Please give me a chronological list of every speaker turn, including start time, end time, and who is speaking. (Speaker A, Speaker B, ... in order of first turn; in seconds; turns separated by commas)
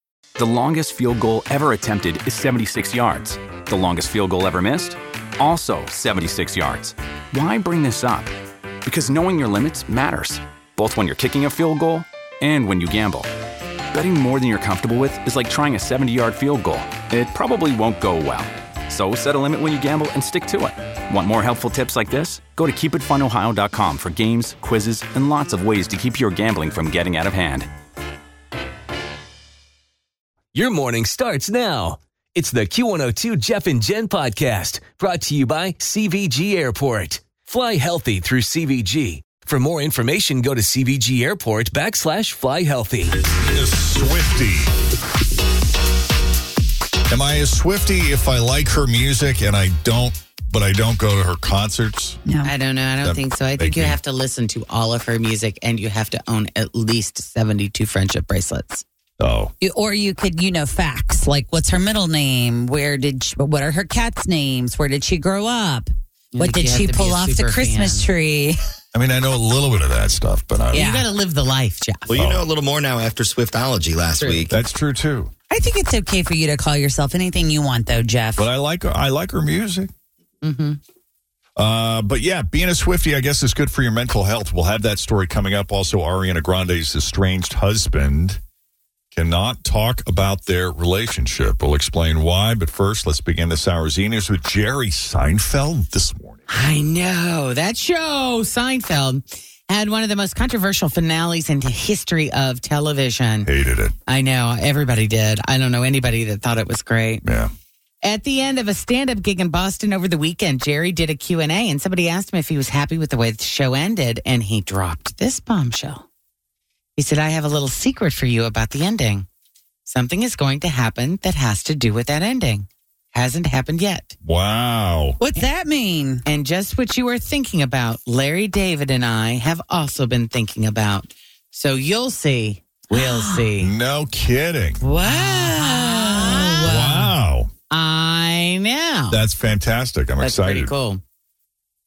Speaker A: 0.4-8.3, Speaker A: 8.8-13.3, Speaker A: 13.9-27.7, Speaker B: 30.5-43.2, Speaker C: 43.5-44.7, Speaker C: 47.1-52.2, Speaker D: 52.2-52.5, Speaker E: 52.4-58.8, Speaker C: 53.0-54.0, Speaker C: 59.2-59.5, Speaker D: 59.6-68.6, Speaker E: 66.3-68.0, Speaker C: 68.9-70.9, Speaker E: 70.7-72.1, Speaker D: 70.7-71.0, Speaker F: 72.1-74.5, Speaker C: 72.1-72.5, Speaker E: 74.2-74.5, Speaker C: 74.5-75.3, Speaker D: 75.5-78.5, Speaker C: 78.4-79.9, Speaker E: 80.4-80.8, Speaker C: 81.6-88.4, Speaker C: 89.1-96.4, Speaker E: 96.5-103.5, Speaker C: 103.4-103.9, Speaker E: 104.1-107.2, Speaker C: 107.2-107.5, Speaker E: 108.0-116.1, Speaker E: 117.0-119.2, Speaker E: 119.8-124.1, Speaker C: 124.2-125.2, Speaker D: 125.2-126.2, Speaker E: 126.2-133.7, Speaker D: 132.9-133.4, Speaker C: 133.6-134.8, Speaker D: 134.8-137.1, Speaker E: 135.0-136.7, Speaker C: 136.7-137.5, Speaker E: 137.7-139.2, Speaker C: 139.1-140.7, Speaker E: 140.2-141.0